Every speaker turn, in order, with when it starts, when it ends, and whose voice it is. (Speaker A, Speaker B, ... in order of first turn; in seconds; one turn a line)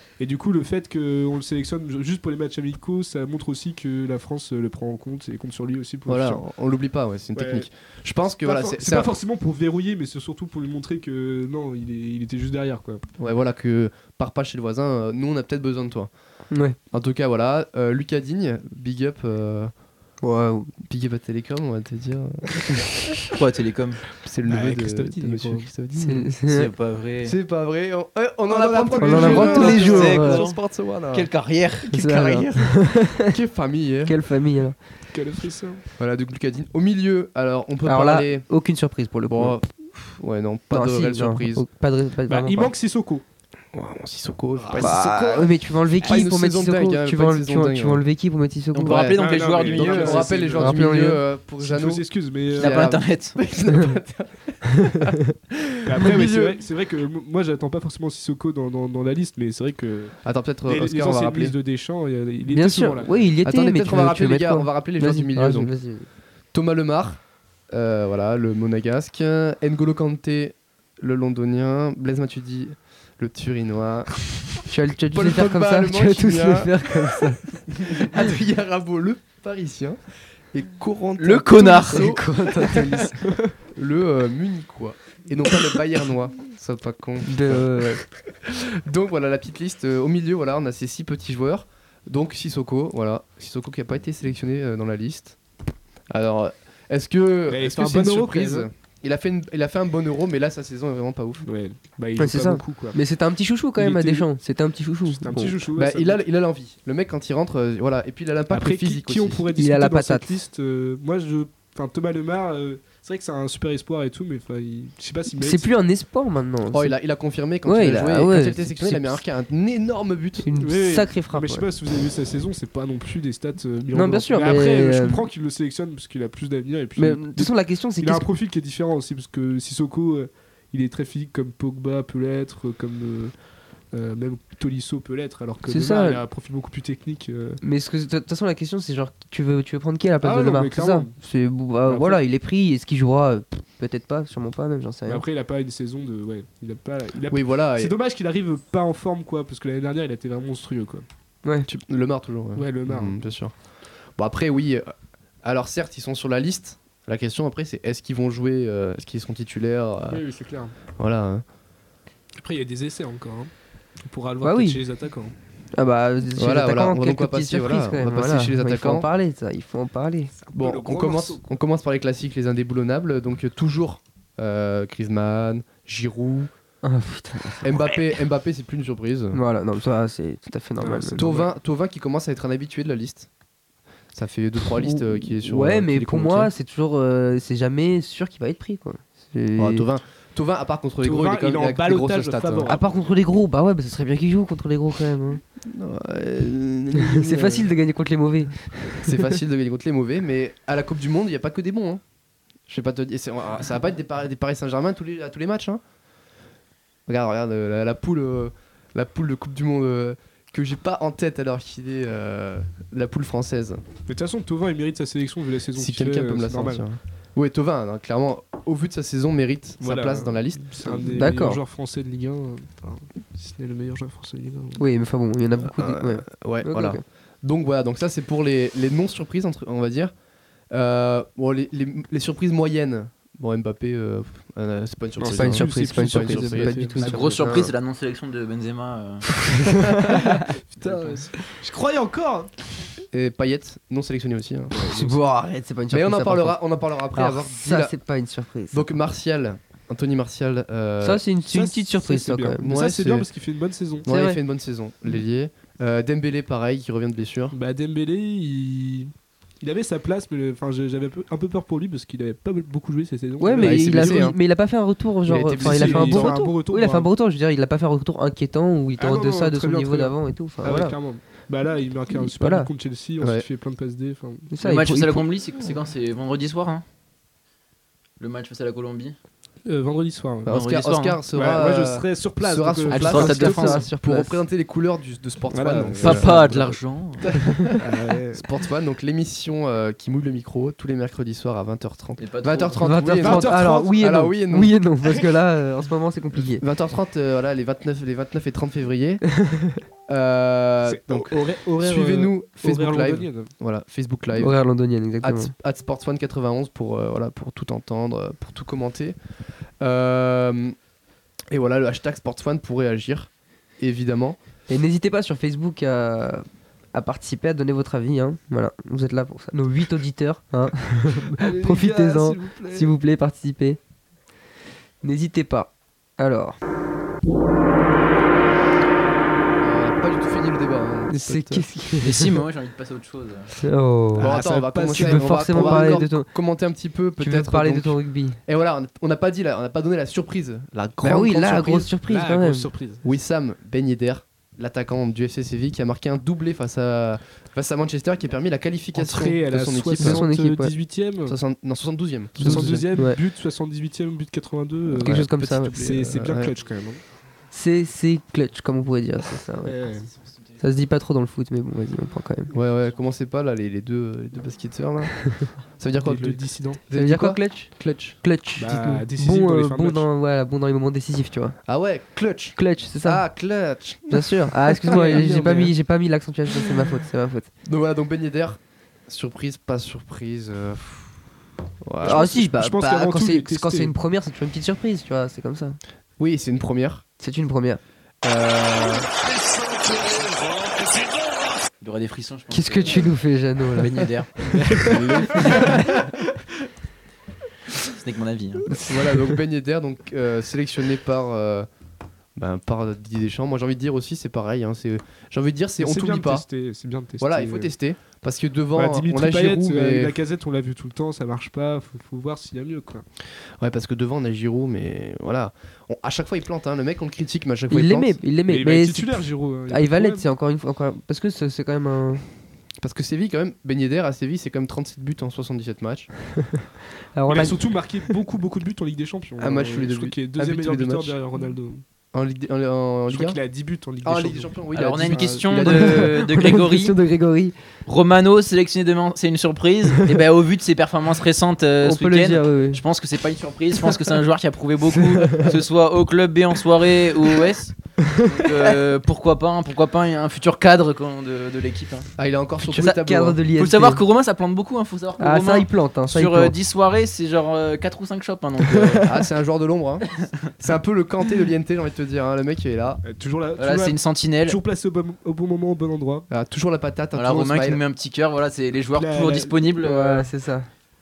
Speaker A: 0.2-6.4
Speaker B: 6.1-9.1
Speaker A: 7.3-7.7
Speaker A: 8.4-13.0
Speaker B: 13.2-16.1
Speaker C: 16.5-16.8
Speaker B: 16.9-19.7
Speaker C: 20.2-20.7
Speaker B: 20.8-23.1
Speaker D: 23.3-24.0
Speaker B: 24.2-26.3
Speaker A: 24.5-25.7
Speaker C: 26.0-26.7
Speaker D: 26.4-27.3
Speaker B: 27.2-31.3
Speaker A: 28.5-30.4
Speaker C: 29.0-30.4
Speaker D: 29.3-30.6
Speaker D: 31.1-32.5
Speaker C: 31.9-33.3
Speaker B: 33.2-34.2
Speaker C: 34.0-34.8
Speaker A: 35.1-35.8
Speaker B: 36.0-38.5
Speaker C: 37.8-39.6
Speaker B: 39.3-41.6
Speaker C: 40.7-42.7
Speaker A: 42.3-43.2
Speaker B: 43.7-45.1
Speaker A: 44.5-45.5
Speaker C: 44.8-49.0
Speaker B: 46.0-48.0
Speaker D: 48.7-50.6
Speaker B: 48.8-55.2
Speaker A: 49.0-50.8
Speaker C: 50.6-51.2
Speaker A: 51.6-52.9
Speaker D: 52.5-53.4
Speaker A: 55.8-63.3
Speaker B: 55.9-56.6
Speaker B: 60.2-61.5
Speaker C: 62.5-66.1
Speaker B: 63.4-65.7
Speaker B: 66.5-67.2
Speaker B: 67.7-74.3
Speaker C: 74.7-77.4
Speaker B: 75.1-80.0
Speaker B: 80.5-83.1
Speaker D: 81.2-82.1
Speaker C: 81.9-83.3
Speaker B: 83.7-87.8
Speaker C: 87.2-88.0
Speaker B: 88.4-95.3
Speaker B: 96.1-101.5
Speaker A: 97.5-98.7
Speaker A: 101.4-103.0
Speaker C: 102.2-105.5
Speaker A: 103.8-104.3
Speaker A: 105.1-106.2
Speaker B: 105.8-109.4
Speaker A: 108.5-115.7
Speaker C: 109.5-110.3
Speaker C: 115.3-116.9
Speaker B: 116.7-120.5
Speaker C: 117.6-119.2
Speaker C: 120.4-121.7
Speaker A: 120.6-133.3
Speaker C: 123.9-125.2
Speaker C: 127.0-128.2
Speaker A: 133.9-137.6
Speaker C: 135.7-136.2
Speaker C: 137.6-145.2
Speaker A: 140.2-141.1
Speaker A: 141.8-142.2
Speaker A: 145.1-151.1
Speaker B: 147.3-147.9
Speaker B: 151.7-153.5
Speaker A: 152.5-153.2
Speaker B: 154.1-160.2
Speaker A: 160.1-160.7
Speaker B: 160.9-161.4
Speaker A: 162.3-163.5
Speaker A: 164.0-165.3
Speaker C: 164.4-164.8
Speaker C: 165.7-170.3
Speaker B: 166.3-169.1
Speaker A: 170.3-171.4
Speaker B: 170.5-176.5
Speaker C: 176.8-177.8
Speaker B: 177.6-179.4
Speaker C: 179.3-181.3
Speaker A: 180.8-181.5
Speaker B: 181.2-183.3
Speaker B: 184.1-186.5
Speaker C: 184.8-189.9
Speaker B: 189.6-192.8
Speaker A: 191.0-192.8
Speaker C: 192.7-195.4
Speaker B: 195.6-197.7
Speaker C: 196.9-199.3
Speaker B: 198.9-202.0
Speaker B: 202.7-205.8
Speaker B: 207.1-213.8
Speaker A: 214.1-216.8
Speaker B: 215.7-221.3
Speaker A: 219.8-224.8
Speaker C: 221.1-221.6
Speaker C: 224.8-227.0
Speaker B: 225.6-230.1
Speaker B: 230.7-237.2
Speaker A: 235.2-237.3
Speaker C: 235.2-237.7
Speaker D: 237.0-239.3
Speaker C: 239.4-240.5
Speaker A: 240.1-242.7
Speaker B: 240.7-241.3
Speaker B: 243.1-244.9
Speaker A: 244.7-245.2
Speaker C: 244.9-246.6
Speaker B: 245.9-247.9
Speaker C: 247.1-248.9
Speaker B: 248.7-251.2
Speaker C: 251.0-252.7
Speaker A: 251.5-254.1
Speaker B: 252.6-253.3
Speaker B: 254.0-257.5
Speaker C: 254.1-254.4
Speaker A: 257.5-264.3
Speaker C: 263.4-271.0
Speaker B: 263.6-264.4
Speaker B: 265.2-266.3
Speaker A: 265.6-267.1
Speaker A: 269.0-274.5
Speaker C: 272.2-272.7
Speaker B: 273.2-273.4
Speaker C: 274.5-275.2
Speaker D: 274.6-276.8
Speaker D: 278.2-279.1
Speaker A: 279.6-280.5
Speaker B: 280.4-287.8
Speaker D: 280.5-281.2
Speaker A: 281.3-283.6
Speaker C: 282.9-284.4
Speaker D: 283.0-283.8
Speaker A: 285.5-286.4
Speaker D: 286.0-287.3
Speaker A: 287.8-288.4
Speaker B: 288.3-294.8
Speaker D: 292.2-292.8
Speaker C: 292.8-296.6
Speaker A: 293.2-294.1
Speaker B: 296.6-299.2
Speaker C: 299.3-299.8
Speaker B: 300.1-304.6
Speaker A: 300.9-303.5
Speaker C: 304.3-305.5
Speaker B: 305.2-309.1
Speaker B: 309.8-310.8
Speaker B: 311.5-314.4
Speaker C: 314.7-323.8
Speaker A: 321.3-322.9
Speaker C: 325.0-326.6
Speaker B: 329.6-331.6
Speaker C: 331.1-332.4
Speaker D: 332.0-333.5
Speaker C: 333.6-334.3
Speaker A: 334.2-336.1
Speaker B: 334.2-341.9
Speaker C: 334.9-336.3
Speaker C: 337.2-338.4
Speaker C: 341.0-342.7
Speaker A: 342.1-343.0
Speaker B: 343.0-350.2
Speaker A: 348.9-351.4
Speaker C: 350.0-350.7
Speaker B: 351.2-352.9
Speaker C: 352.4-353.2
Speaker A: 352.4-357.0
Speaker B: 354.9-356.5
Speaker C: 355.0-355.7
Speaker C: 357.5-359.8
Speaker A: 359.6-360.1
Speaker C: 360.6-362.5
Speaker B: 362.5-365.2
Speaker B: 365.8-368.2
Speaker A: 366.0-366.8
Speaker C: 366.9-371.6
Speaker A: 368.6-370.1
Speaker B: 371.6-375.7
Speaker C: 372.6-373.2
Speaker C: 374.1-377.5
Speaker A: 374.9-375.7
Speaker B: 377.6-381.2
Speaker B: 381.8-382.4
Speaker A: 382.0-383.9
Speaker C: 382.0-385.8
Speaker B: 386.2-387.0
Speaker C: 387.2-387.8
Speaker B: 388.2-389.1
Speaker D: 391.8-393.1
Speaker C: 392.5-395.7
Speaker D: 393.8-394.8
Speaker A: 394.6-395.6
Speaker B: 394.8-396.0
Speaker D: 397.8-398.6
Speaker C: 398.7-399.4
Speaker B: 398.7-401.7
Speaker B: 402.4-406.4
Speaker A: 405.8-407.7
Speaker B: 407.2-410.2
Speaker A: 408.7-413.0
Speaker B: 413.6-418.2
Speaker C: 417.7-422.2
Speaker A: 418.5-420.2
Speaker B: 422.8-426.1
Speaker C: 427.1-427.6
Speaker A: 427.3-431.8
Speaker B: 429.4-431.2
Speaker B: 432.1-433.4
Speaker A: 433.1-435.4
Speaker B: 434.0-436.2
Speaker D: 434.7-436.9
Speaker C: 435.6-437.5
Speaker D: 437.9-452.1
Speaker C: 441.8-442.8
Speaker C: 444.9-445.5
Speaker B: 452.2-453.4
Speaker C: 452.6-454.0
Speaker D: 453.6-459.0
Speaker C: 455.2-456.5
Speaker C: 458.7-459.0
Speaker B: 459.0-463.0
Speaker A: 463.0-466.3
Speaker D: 463.6-464.6
Speaker B: 466.3-467.8
Speaker D: 467.1-470.3
Speaker A: 468.9-469.6
Speaker C: 469.8-470.7